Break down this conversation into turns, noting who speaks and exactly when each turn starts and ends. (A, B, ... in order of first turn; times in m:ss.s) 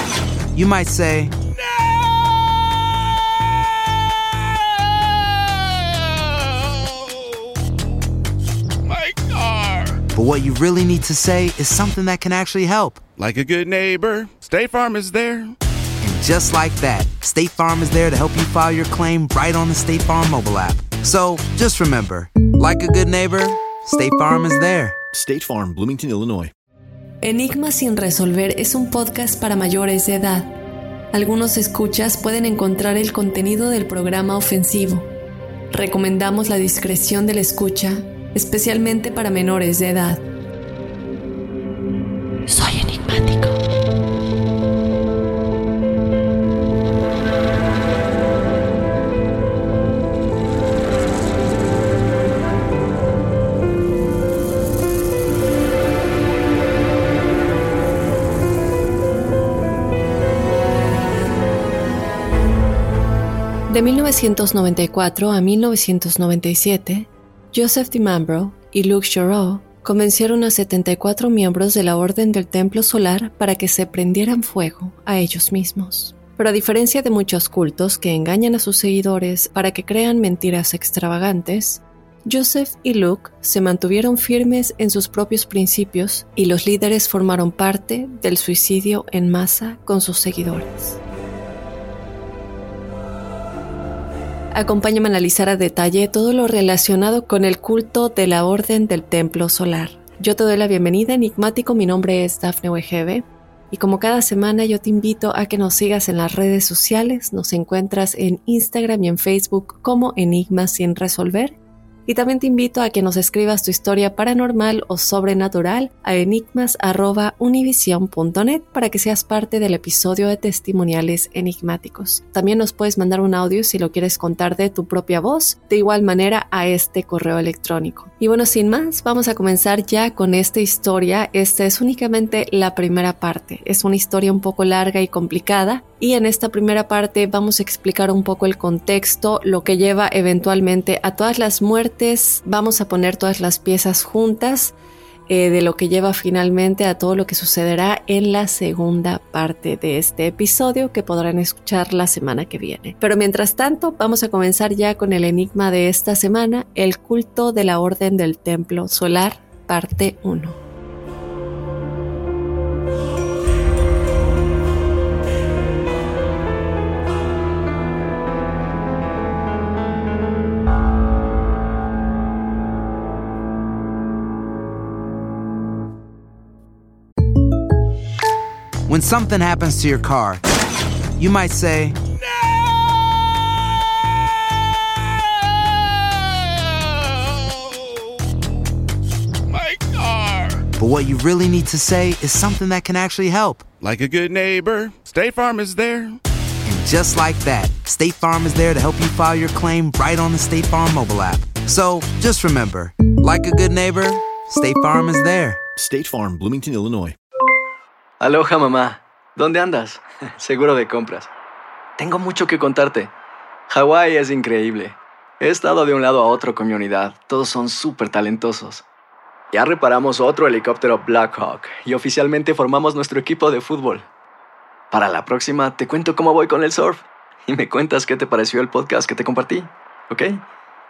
0:00.5-0:01.3 A
0:06.1-0:06.8 B
0:08.9-0:10.0 B
0:10.1-0:13.0 A
0:13.2-0:15.6 B
0:16.0-0:25.0 A
0:25.1-0:26.5 C
0:27.2-0:30.6 D
0:31.1-0:35.1 D
0:35.7-0:40.2 D
0:42.5-0:43.6 D
1:03.7-1:31.0 D
1:34.6-2:24.7 D
2:25.3-2:40.6 D
2:58.9-3:00.4 A
3:01.2-3:02.0 A
3:07.3-3:07.7 B
3:09.5-3:10.7 B
3:10.8-3:13.7 A
3:13.8-3:16.2 B
3:16.6-3:25.6 A
3:25.8-3:27.2 C
3:28.2-3:31.3 E
3:32.0-3:33.1 E
3:33.7-3:38.8 E
3:39.5-3:44.1 E
3:44.9-3:50.4 E